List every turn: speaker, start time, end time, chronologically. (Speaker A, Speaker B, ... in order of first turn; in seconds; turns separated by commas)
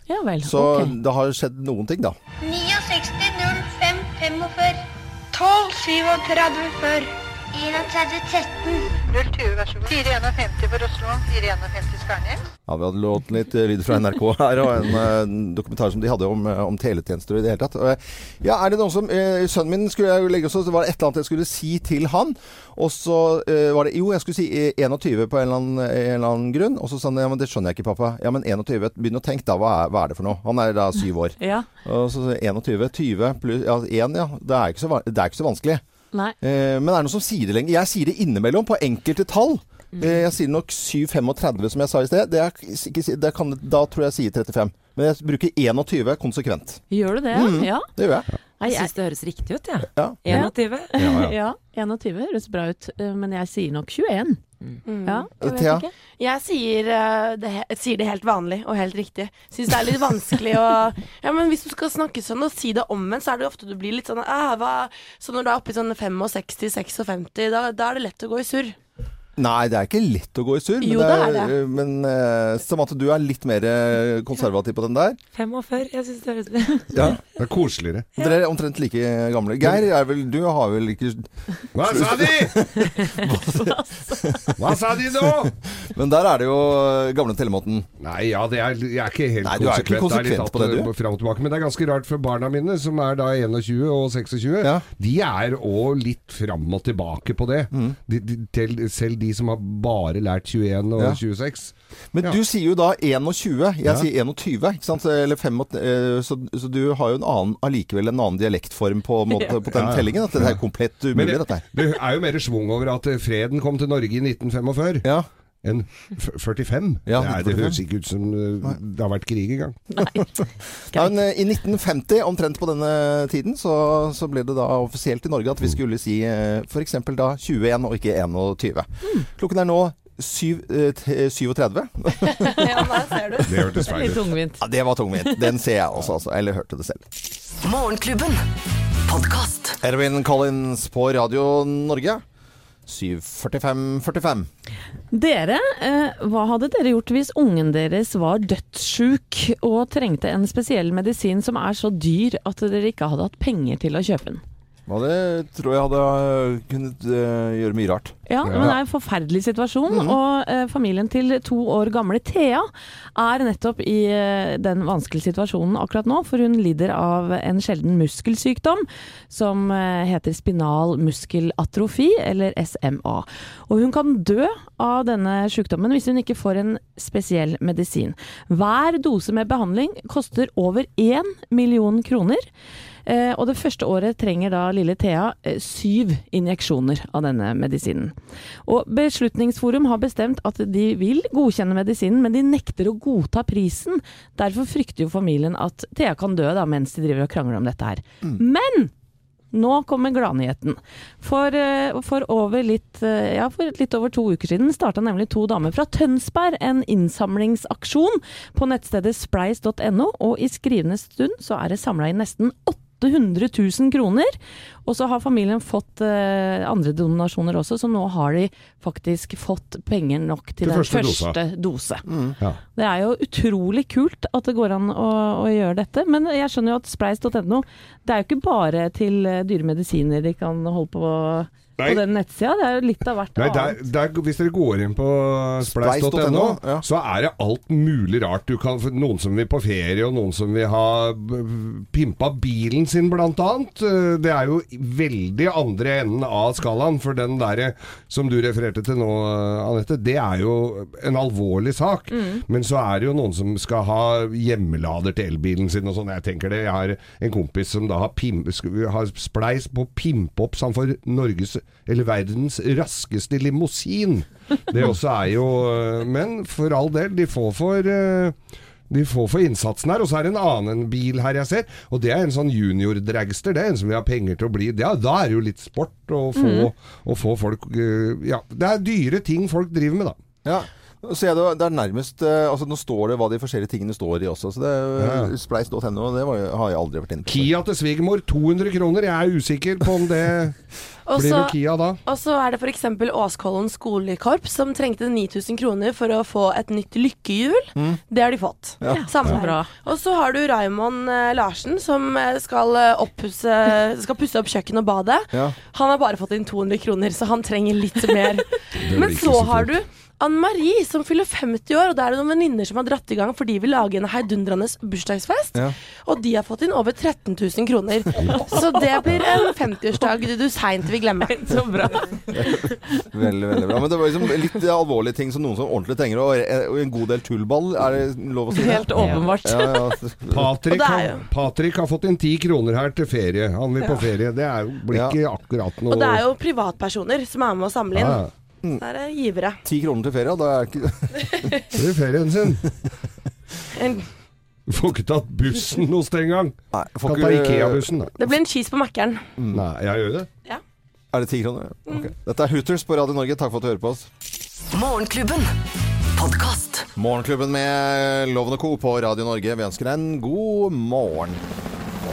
Speaker A: 0.1-0.9, Speaker B: 0.4-2.2, Speaker C: 2.4-12.4, Speaker B: 12.7-35.8, Speaker A: 31.4-31.7, Speaker B: 36.4-48.3, Speaker A: 46.9-47.9, Speaker A: 48.6-48.9, Speaker D: 48.6-50.9, Speaker B: 50.0-51.3, Speaker A: 50.3-54.4, Speaker E: 54.9-68.8, Speaker A: 55.0-55.9, Speaker B: 55.4-55.9, Speaker B: 69.4-75.2, Speaker E: 70.8-71.5, Speaker D: 75.3-77.0, Speaker B: 76.9-77.2, Speaker F: 77.0-78.1, Speaker B: 78.2-87.9, Speaker F: 81.7-82.6, Speaker A: 83.6-84.3, Speaker F: 84.6-85.5, Speaker F: 88.0-102.4, Speaker B: 89.4-90.9, Speaker B: 102.1-111.6, Speaker F: 109.7-110.6, Speaker F: 111.1-115.1, Speaker F: 115.6-119.8, Speaker B: 117.1-117.8, Speaker B: 120.0-132.8, Speaker E: 132.3-133.5, Speaker F: 133.4-134.3, Speaker A: 133.9-134.6, Speaker B: 134.6-137.1, Speaker G: 137.6-138.4, Speaker G: 139.1-139.8, Speaker B: 139.8-142.2, Speaker B: 142.9-144.5, Speaker A: 145.1-154.4, Speaker B: 154.9-158.8, Speaker A: 158.3-182.5, Speaker F: 158.4-158.7, Speaker B: 159.9-160.2, Speaker A: 183.1-198.9, Speaker A: 199.5-222.0, Speaker F: 220.6-221.4, Speaker B: 222.1-222.3, Speaker A: 222.7-233.8, Speaker F: 231.8-232.0, Speaker F: 233.4-268.4, Speaker B: 235.6-236.8, Speaker A: 252.1-252.4, Speaker F: 268.9-280.2, Speaker A: 276.4-276.7, Speaker B: 280.4-287.5, Speaker F: 285.0-285.3, Speaker F: 287.3-290.6, Speaker E: 291.1-322.1, Speaker F: 291.1-292.0, Speaker A: 298.9-299.7, Speaker F: 308.8-309.8, Speaker A: 321.2-323.0, Speaker B: 323.1-330.5, Speaker A: 328.5-330.0, Speaker F: 328.9-329.3, Speaker F: 330.3-336.2, Speaker E: 330.7-331.3, Speaker B: 334.9-335.2, Speaker E: 335.9-339.6, Speaker F: 337.9-338.3, Speaker B: 339.6-341.6, Speaker F: 341.7-342.6, Speaker E: 343.8-344.1, Speaker F: 344.7-348.1, Speaker B: 346.7-347.9, Speaker E: 348.2-349.3, Speaker B: 349.4-349.6, Speaker F: 349.5-350.3, Speaker B: 351.1-354.1, Speaker G: 354.7-355.6, Speaker G: 356.1-356.9, Speaker B: 357.0-361.4